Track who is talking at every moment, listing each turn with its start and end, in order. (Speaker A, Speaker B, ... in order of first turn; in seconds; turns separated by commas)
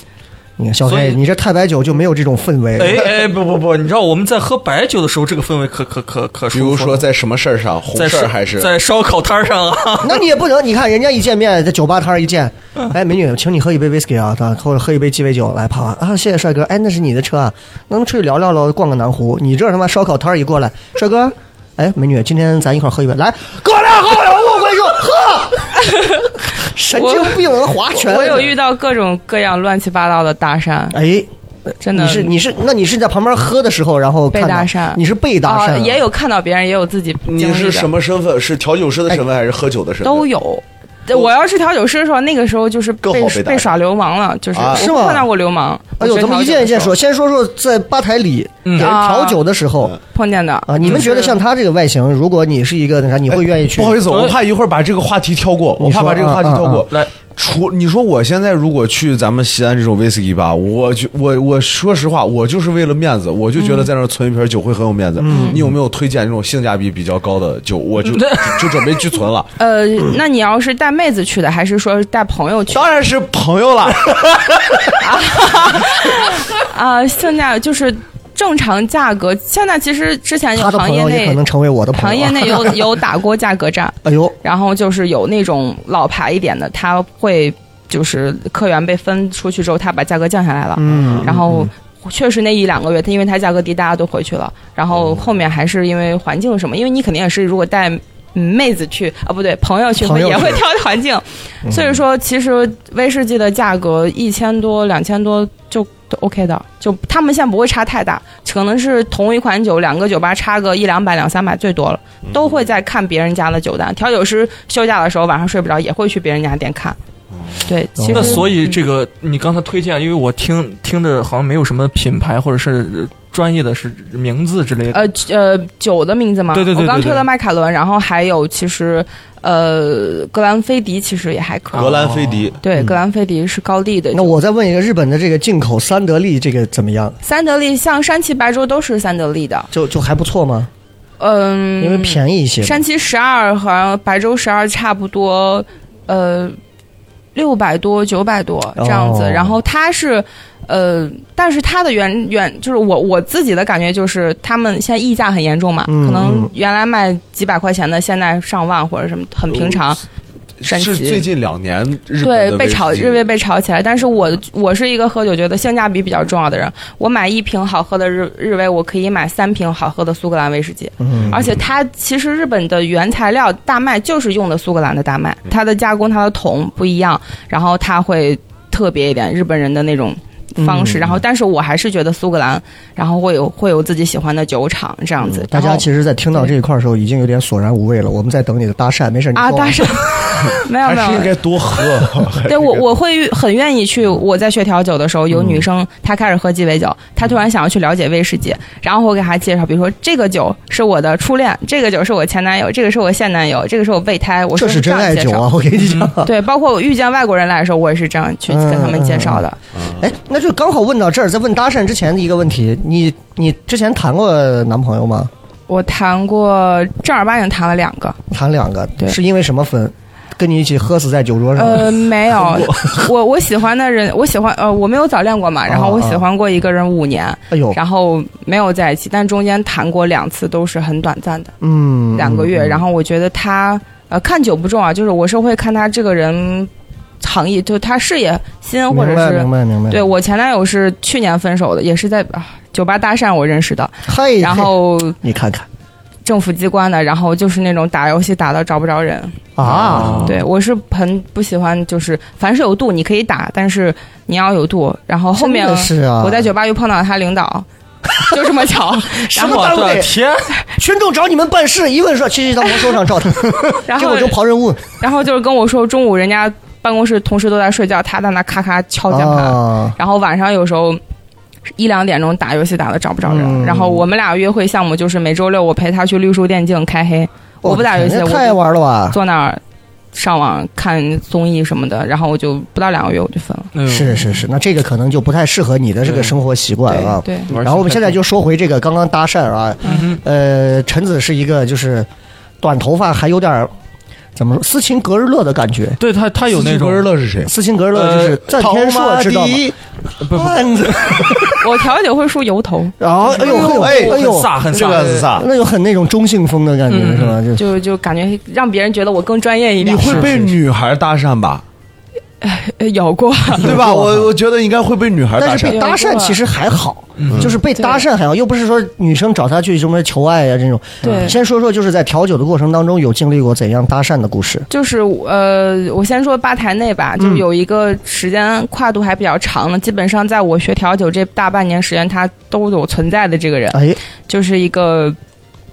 Speaker A: 0.6-3.1, Speaker B: 0.8-1.2, Speaker B: 2.8-7.1, Speaker C: 6.5-8.7, Speaker B: 8.0-10.2, Speaker A: 10.0-25.8, Speaker A: 26.5-28.5, Speaker D: 26.9-31.0, Speaker A: 30.9-36.0, Speaker D: 31.8-32.3, Speaker D: 34.3-37.9, Speaker C: 37.2-40.3, Speaker D: 40.0-46.9, Speaker C: 43.0-43.8, Speaker C: 44.5-44.9, Speaker A: 44.7-45.3, Speaker A: 46.0-50.0, Speaker B: 48.6-48.9, Speaker D: 48.8-49.4, Speaker D: 50.1-51.4, Speaker A: 50.7-54.0, Speaker C: 53.3-69.5, Speaker B: 54.1-54.4, Speaker A: 55.8-56.9, Speaker D: 63.6-63.9, Speaker A: 65.2-65.7, Speaker D: 65.3-65.6, Speaker B: 68.1-68.7, Speaker D: 69.6-72.9, Speaker C: 72.7-75.0, Speaker D: 75.0-81.4, Speaker A: 80.5-83.0, Speaker D: 81.9-117.0, Speaker A: 84.0-84.3, Speaker A: 90.8-91.7, Speaker C: 90.9-91.3, Speaker A: 100.0-100.6, Speaker A: 101.7-102.0, Speaker D: 117.6-118.7, Speaker A: 118.0-118.5, Speaker B: 118.1-125.0, Speaker D: 124.9-132.1, Speaker B: 126.5-127.3, Speaker B: 131.7-132.4, Speaker C: 131.8-132.6, Speaker D: 132.6-134.3, Speaker A: 134.1-137.2, Speaker D: 137.2-139.7, Speaker A: 139.7-140.7, Speaker D: 141.2-146.6, Speaker A: 141.8-142.8, Speaker D: 147.3-160.0, Speaker A: 148.8-149.6, Speaker A: 155.9-156.5, Speaker C: 159.5-159.8, Speaker C: 160.6-163.2, Speaker D: 160.7-161.3, Speaker D: 162.2-186.5, Speaker A: 171.0-171.4, Speaker C: 171.2-171.6, Speaker A: 180.6-181.2, Speaker A: 185.2-190.0, Speaker D: 189.3-191.3, Speaker C: 190.8-192.8, Speaker D: 192.5-205.5, Speaker A: 195.3-195.6, Speaker A: 204.6-206.3, Speaker B: 205.8-206.1, Speaker D: 206.2-209.6, Speaker A: 208.5-215.3, Speaker D: 215.7-218.2, Speaker A: 218.3-222.1, Speaker D: 221.6-231.5, Speaker A: 225.7-226.2, Speaker A: 227.5-227.8, Speaker A: 231.6-232.8, Speaker D: 232.1-236.7, Speaker D: 237.2-245.2, Speaker A: 238.9-240.0, Speaker A: 244.1-245.7, Speaker D: 246.2-249.4, Speaker A: 249.6-250.3, Speaker B: 249.6-250.4, Speaker D: 250.1-257.7, Speaker A: 255.4-256.5, Speaker D: 258.2-259.8, Speaker A: 259.1-260.1, Speaker B: 259.4-260.5, Speaker A: 260.7-264.9, Speaker D: 263.9-264.4, Speaker D: 265.0-271.0, Speaker A: 269.1-269.9, Speaker D: 271.8-278.6, Speaker A: 273.2-274.1, Speaker A: 277.6-279.2, Speaker D: 279.1-279.6, Speaker D: 280.1-283.7, Speaker B: 283.7-284.5, Speaker A: 283.9-292.1, Speaker B: 286.0-286.4, Speaker D: 286.9-287.5, Speaker B: 287.5-288.2, Speaker B: 289.9-290.2, Speaker A: 292.6-293.7, Speaker A: 294.4-296.0, Speaker B: 296.0-297.1, Speaker C: 296.5-297.5, Speaker A: 297.4-301.6, Speaker B: 297.9-298.4, Speaker C: 298.5-299.6, Speaker B: 300.2-300.7, Speaker D: 301.6-304.2, Speaker A: 303.0-304.6, Speaker B: 303.3-305.3, Speaker C: 303.5-305.5, Speaker A: 305.3-307.6, Speaker B: 306.9-307.4, Speaker D: 307.6-310.5, Speaker C: 309.8-311.6, Speaker B: 310.0-310.5, Speaker D: 312.4-313.8, Speaker C: 313.6-315.8, Speaker A: 313.6-314.4, Speaker A: 315.4-324.7, Speaker D: 315.6-316.4, Speaker B: 317.2-317.5, Speaker C: 317.3-317.5, Speaker D: 317.7-318.1, Speaker D: 321.0-321.4, Speaker D: 324.7-335.2, Speaker A: 327.2-327.4, Speaker A: 333.7-334.0